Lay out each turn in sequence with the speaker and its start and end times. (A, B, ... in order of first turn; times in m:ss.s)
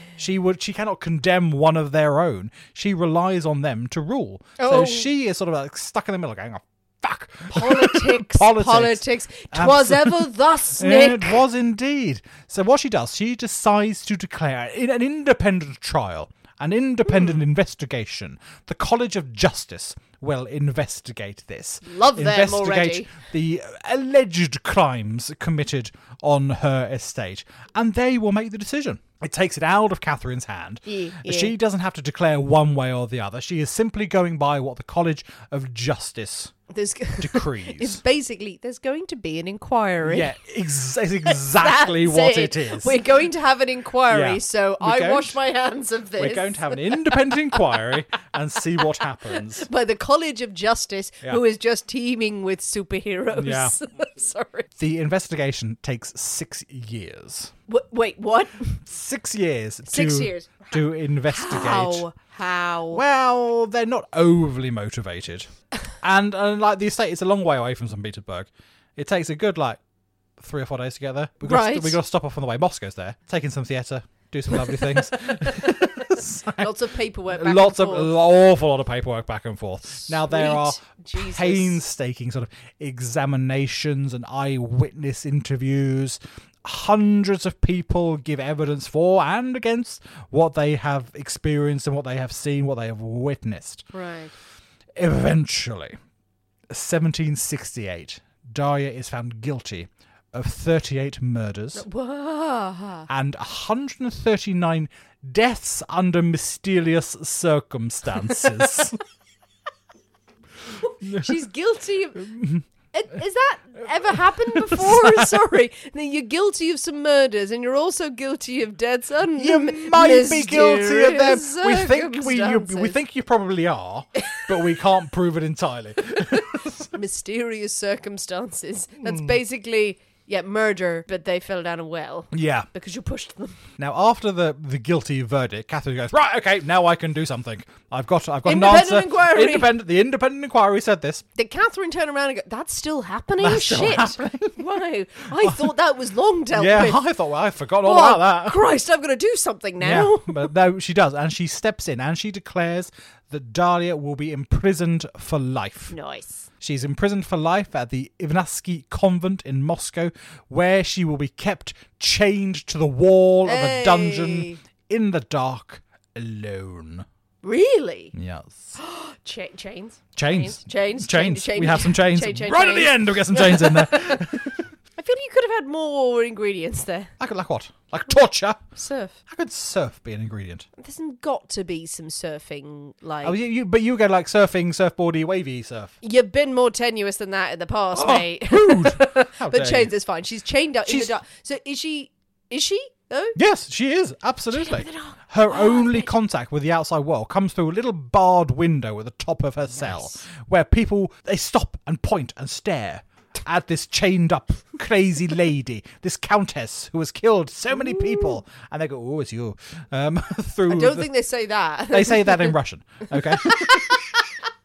0:00.2-0:36.5 A
0:04.6-0:05.1 B
0:07.5-0:11.4 B
0:17.1-0:17.4 B
0:21.8-0:23.1 B
0:30.8-0:31.6 B
0:36.7-0:40.3 B
0:37.2-0:38.0 A
0:40.0-0:43.0 A
0:41.3-0:47.8 B
0:44.1-0:45.4 A
0:46.2-0:49.7 A
0:49.4-0:54.7 B
0:53.3-0:53.8 A
0:54.8-0:57.5 A
0:57.7-0:58.8 B
0:58.8-1:02.0 A
0:59.9-1:03.0 B
1:02.9-1:05.5 A
1:06.0-1:09.8 A
1:10.4-1:16.7 A
1:11.4-1:12.0 B
1:15.2-1:15.8 B
1:16.6-1:18.1 B
1:17.3-1:33.9 A
1:20.0-1:21.8 B
1:33.9-1:34.3 B
1:34.9-1:36.0 A
1:36.7-1:41.8 A
1:41.7-1:43.1 B
1:43.1-1:49.0 A
1:50.8-1:52.3 B
1:51.0-1:51.4 A
1:52.1-1:52.6 A
1:52.9-2:02.9 B
1:54.1-1:55.4 A
1:59.4-2:06.9 A
2:06.2-2:13.6 B
2:09.0-2:09.3 A
2:12.3-2:12.7 A
2:13.8-2:21.2 A
2:18.4-2:19.7 B
2:21.4-2:27.0 B
2:23.4-2:24.7 A
2:25.4-2:25.7 A
2:26.5-2:28.6 A
2:27.8-2:30.5 B
2:29.8-2:35.9 A
2:35.9-2:36.5 B
2:36.6-2:47.0 A
2:43.4-2:44.6 B
2:47.4-2:48.1 B
2:48.1-2:48.8 A
2:48.8-2:54.3 B
2:50.2-2:54.6 A
2:55.0-2:57.1 B
2:57.2-2:58.6 A
2:58.8-2:59.2 B
2:59.3-3:00.7 A
3:00.8-3:03.4 B
3:03.2-3:05.9 A
3:06.0-3:13.4 B
3:07.9-3:09.9 A
3:10.8-3:11.1 A
3:13.3-3:31.1 A
3:14.5-3:16.1 B
3:19.7-3:20.2 B
3:27.7-3:28.4 B
3:30.7-3:32.6 B
3:31.9-3:34.0 A
3:33.2-3:33.9 B